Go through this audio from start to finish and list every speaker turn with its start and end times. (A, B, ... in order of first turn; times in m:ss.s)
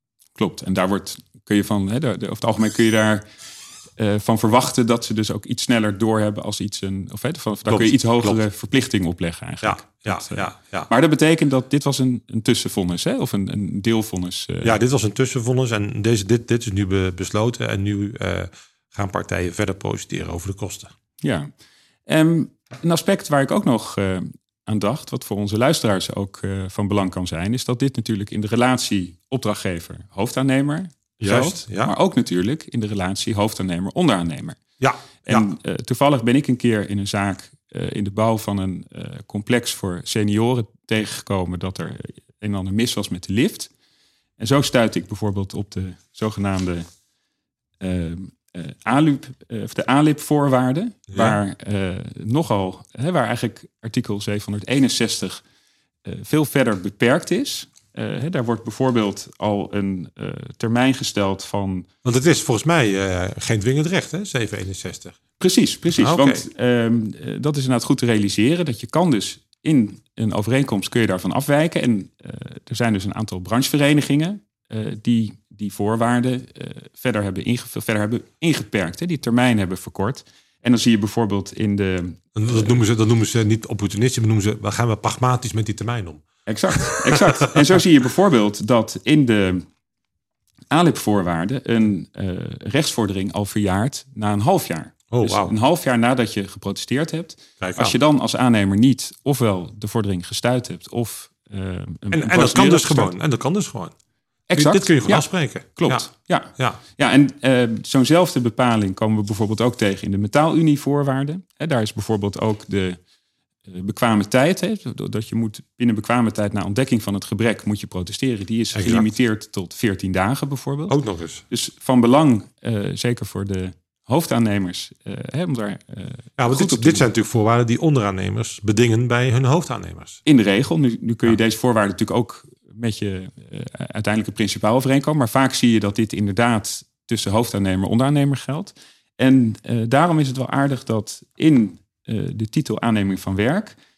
0:00.4-0:03.2 A
0:04.0-0:14.8 A
0:07.7-0:08.4 B
0:09.6-0:10.9 B
0:14.6-0:20.9 B
0:21.2-0:21.5 A
0:22.1-0:34.6 A
0:31.2-0:32.0 B
0:34.8-0:35.5 B
0:35.2-0:43.7 A
0:44.4-0:46.9 A
0:47.8-0:55.4 A
0:51.1-0:51.4 B
0:56.0-1:01.9 A
1:02.0-1:05.2 B
1:05.4-1:22.7 A
1:06.0-1:06.5 B
1:22.4-1:27.6 B
1:26.5-1:29.7 A
1:30.7-1:43.1 A
1:35.1-1:35.5 B
1:37.6-1:38.0 B
1:42.1-1:43.9 B
1:44.5-1:53.0 A
1:44.6-1:46.8 B
1:53.7-2:01.0 A
1:58.7-1:59.1 B
2:00.9-2:01.4 B
2:01.5-2:07.0 A
2:06.4-2:10.2 B
2:10.3-2:23.8 A